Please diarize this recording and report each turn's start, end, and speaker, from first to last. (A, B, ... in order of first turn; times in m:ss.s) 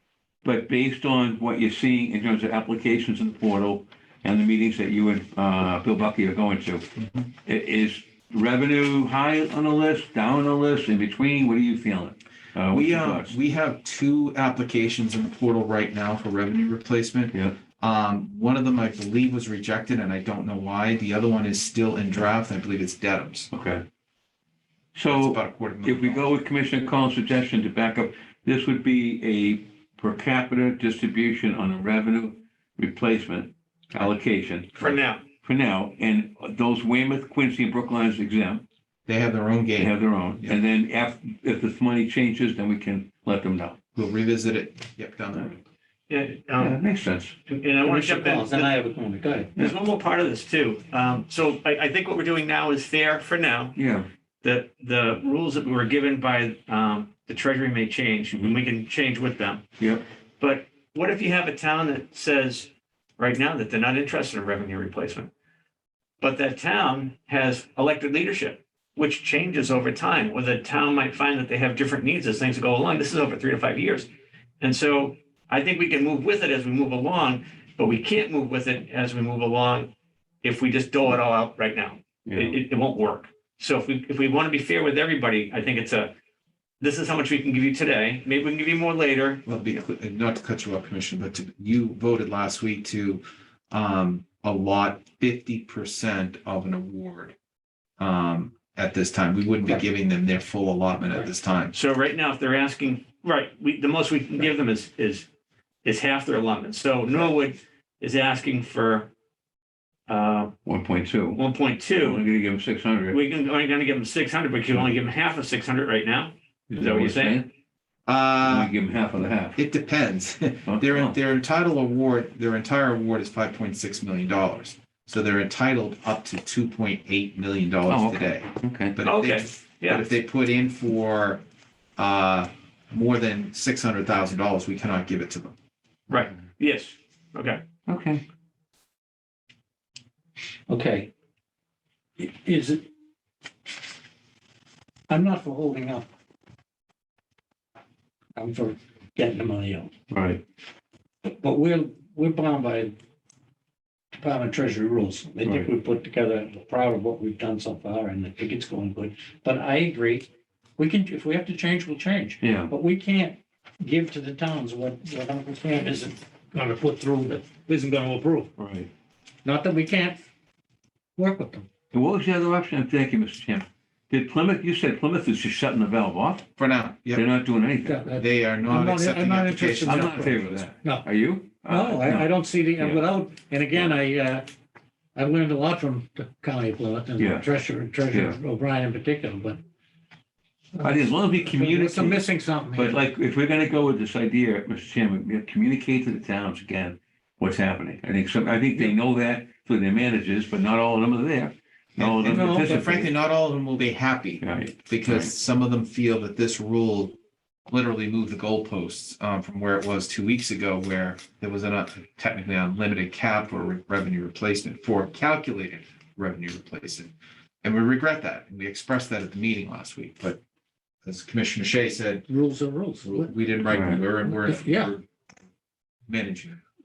0:00.4-0:06.9 A
0:07.0-0:07.3 B
0:07.4-0:13.4 A
0:12.7-0:23.5 B
0:17.3-0:17.6 A
0:23.5-0:23.8 A
0:24.9-0:34.7 A
0:25.1-0:26.4 B
0:34.7-0:35.2 C
0:35.4-0:38.6 A
0:39.0-0:40.6 B
0:39.8-0:43.8 A
0:44.0-0:45.6 B
0:46.1-0:46.8 C
0:46.6-0:47.3 A
0:47.5-0:48.7 C
0:47.8-0:49.5 D
0:49.6-0:53.7 C
0:53.7-0:54.1 A
0:54.4-0:59.6 C
0:59.8-1:00.0 A
1:00.4-1:05.3 C
1:06.2-1:14.1 C
1:14.6-1:26.1 C
1:22.2-1:22.6 A
1:26.8-1:29.4 C
1:29.4-1:37.3 B
1:38.0-1:41.7 B
1:41.7-1:45.2 C
1:45.8-1:49.1 C
1:50.1-1:50.5 C
1:50.6-1:51.4 A
1:51.3-1:52.2 C
1:52.0-1:53.2 A
1:53.1-1:57.4 C
1:56.7-1:57.5 A
1:58.0-1:58.7 B
1:58.4-1:59.6 A
1:59.4-2:11.4 B
2:00.7-2:01.2 A
2:07.9-2:09.0 A
2:09.0-2:10.0 C
2:12.0-2:15.5 B
2:16.1-2:17.6 C
2:17.9-2:18.2 A
2:20.7-2:21.1 D
2:22.2-2:22.8 D
2:25.1-2:26.1 D
2:28.4-2:29.9 D
2:30.1-2:30.4 A
2:31.2-2:32.9 D
2:34.2-2:48.5 D
2:35.4-2:35.7 A
2:42.4-2:42.7 A
2:48.6-2:48.9 A
2:49.4-2:50.2 D
2:51.2-2:51.7 D
2:51.9-2:56.5 A
2:56.6-2:57.2 B
2:57.1-2:58.0 A
2:57.8-3:01.0 D
2:58.1-3:00.7 B
2:59.8-3:03.0 A
3:01.7-3:04.4 D
3:05.1-3:09.6 D
3:07.2-3:07.4 A
3:08.1-3:08.4 A
3:10.7-3:13.0 D
3:10.8-3:23.1 A
3:22.0-3:40.4 B
3:22.2-3:22.8 D
3:24.4-3:25.3 A
3:41.0-3:42.3 B
3:42.3-3:43.3 D
3:43.0-3:45.0 B
3:43.7-3:44.0 A
3:44.1-3:44.9 D
3:46.1-3:46.6 B